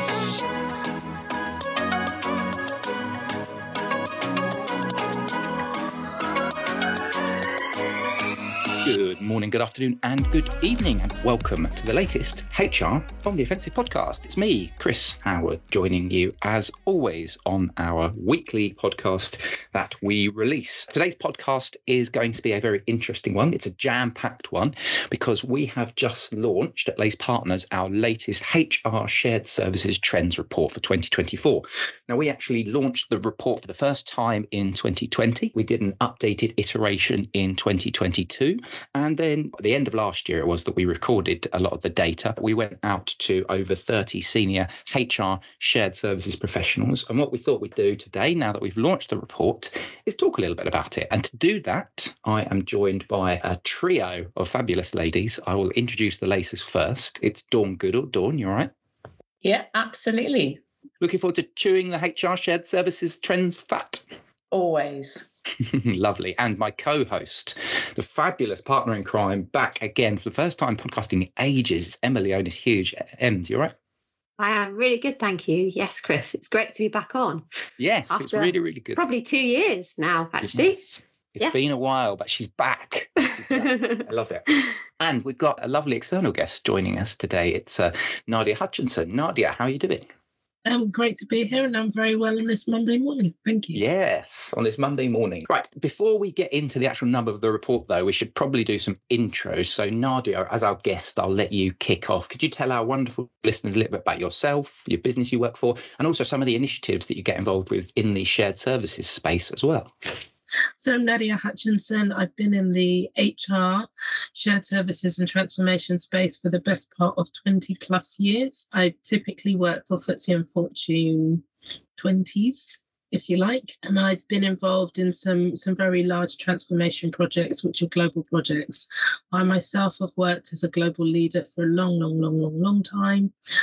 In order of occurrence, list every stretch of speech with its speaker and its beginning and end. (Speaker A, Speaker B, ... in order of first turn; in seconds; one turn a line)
Speaker A: 8.8-58.7
Speaker B: 59.4-60.6
Speaker A: 61.0-64.0
Speaker B: 64.5-65.3
Speaker A: 65.6-73.7
Speaker C: 74.4-77.4
Speaker A: 77.8-79.0
Speaker C: 78.1-81.5
Speaker A: 81.4-90.1
Speaker C: 83.5-84.0
Speaker D: 90.7-93.8
Speaker A: 93.7-109.9
Speaker D: 110.8-121.4
Speaker D: 122.0-133.3